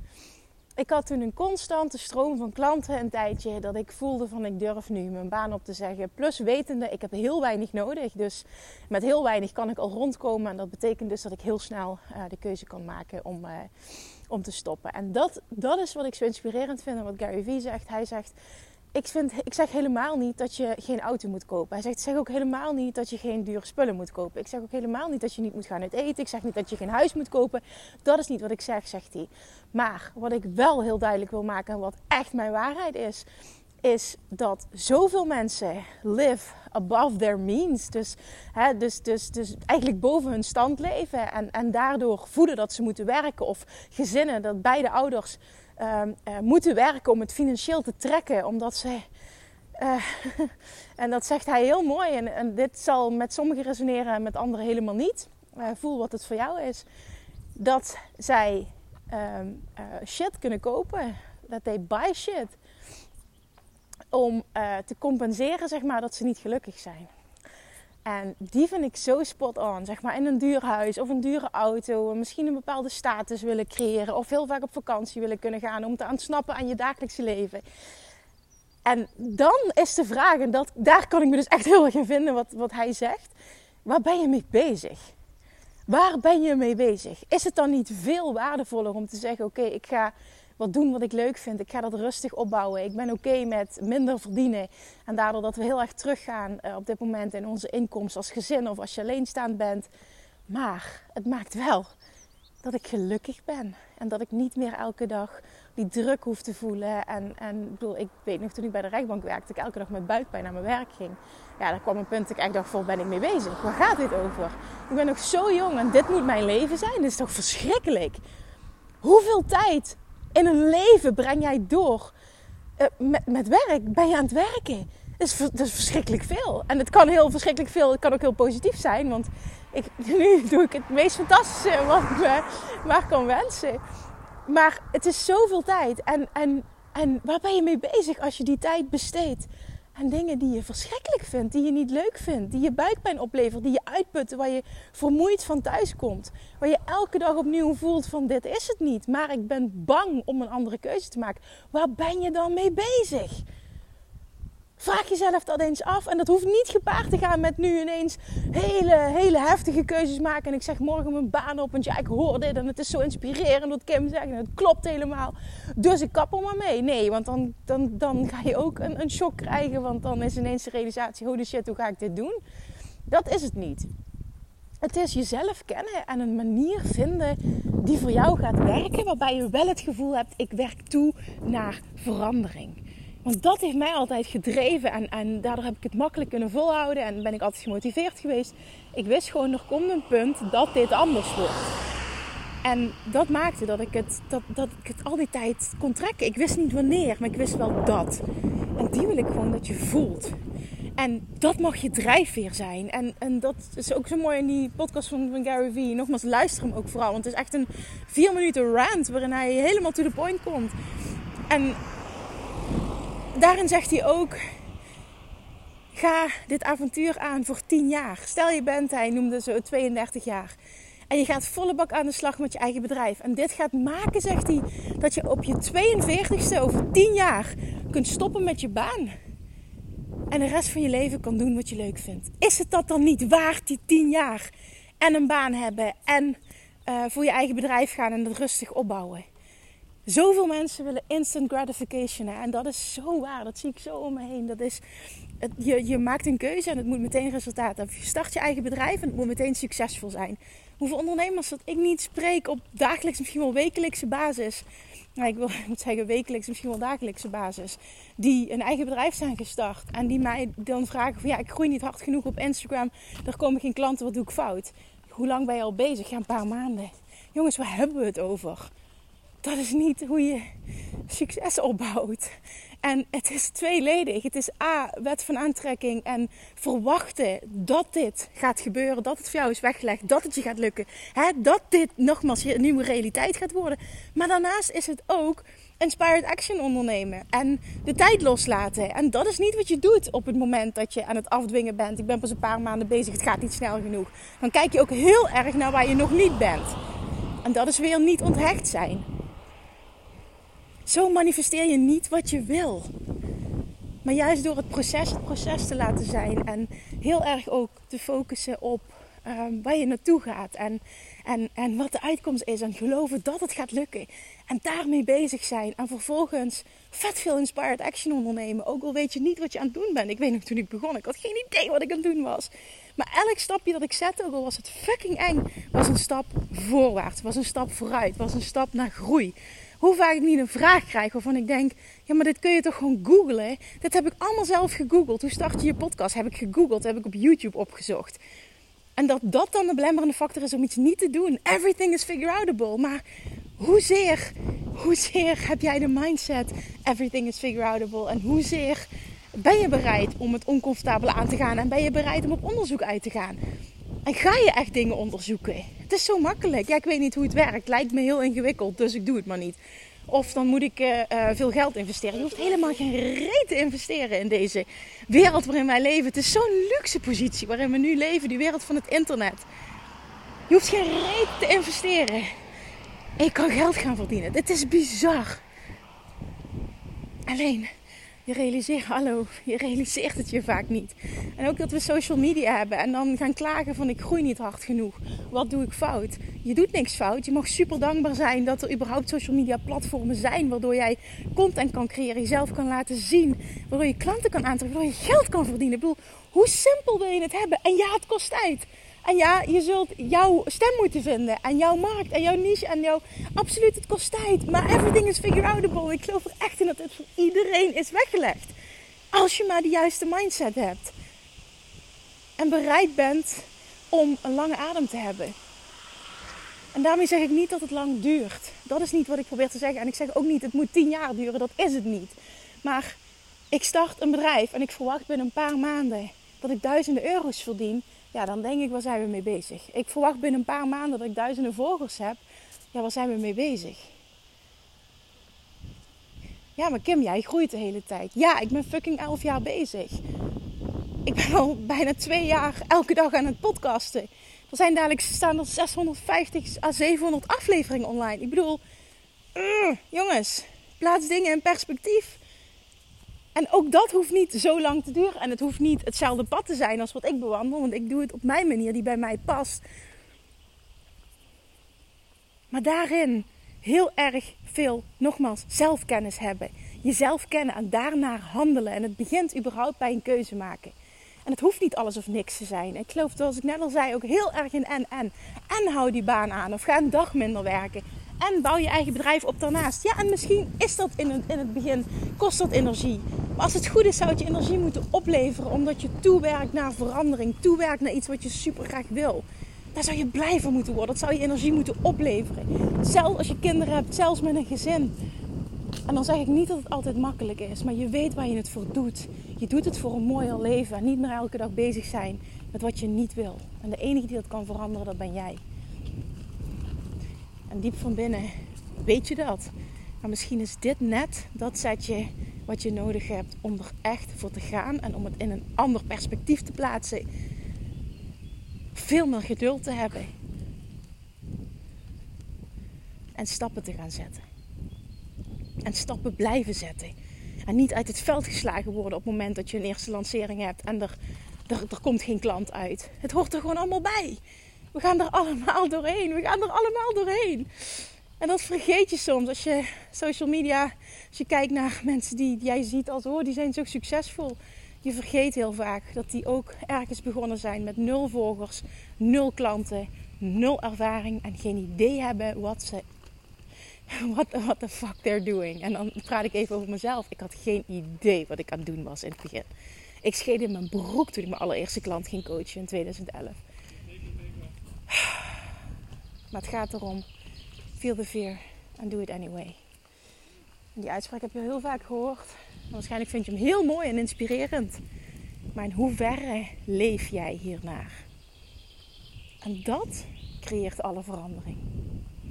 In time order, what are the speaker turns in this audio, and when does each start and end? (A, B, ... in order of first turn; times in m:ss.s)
0:00.8-0:13.7 A
0:14.3-0:18.3 A
0:18.9-0:33.2 A
0:33.8-0:49.0 A
0:49.8-0:56.8 A
0:57.6-1:02.6 A
1:04.1-1:07.1 A
1:08.0-1:17.6 A
1:18.8-1:25.0 A
1:25.9-1:39.9 A
1:40.5-1:41.9 A
1:42.6-1:58.2 A
1:59.0-2:02.1 A
2:02.8-2:13.8 A
2:14.4-2:33.4 A
2:34.8-2:52.4 A
2:53.1-2:53.9 A
2:54.8-3:11.7 A
3:12.6-3:18.2 A
3:18.8-3:20.3 A
3:21.0-3:30.7 A
3:31.5-3:31.8 A
3:33.3-3:34.4 A
3:35.9-3:40.5 A
3:41.1-3:49.1 A
3:50.3-3:59.2 A
4:00.0-4:04.8 A
4:05.4-4:14.6 A
4:15.2-4:28.7 A
4:29.4-4:30.4 A
4:31.1-4:32.3 A
4:32.8-4:56.8 A
4:57.4-4:59.0 A
5:00.8-5:02.9 A
5:04.0-5:38.2 A
5:39.0-5:43.0 A
5:43.6-5:53.4 A
5:54.0-6:09.5 A
6:10.5-6:12.3 A
6:13.2-6:15.4 A
6:17.3-6:17.7 A
6:18.2-6:48.5 A
6:49.1-6:50.9 A
6:52.4-6:55.3 A
6:56.7-7:03.0 A
7:03.5-7:12.2 A
7:12.7-7:13.9 A
7:16.6-7:20.0 A
7:21.0-7:28.6 A
7:29.3-7:32.2 A
7:33.3-7:39.6 A
7:42.5-7:50.8 A
7:51.2-8:14.9 A
8:15.8-8:25.4 A
8:27.5-8:29.5 A
8:30.0-8:37.1 A
8:38.7-8:40.1 A
8:43.2-8:44.2 A
8:45.6-8:47.0 A
8:47.5-8:51.0 A
8:51.5-8:54.2 A
8:54.7-9:12.8 A
9:13.9-9:19.5 A
9:20.0-9:23.4 A
9:24.9-9:25.4 A
9:26.3-9:27.0 A
9:27.8-9:29.6 A
9:30.8-9:34.8 A
9:35.5-9:38.0 A
9:39.4-9:41.6 A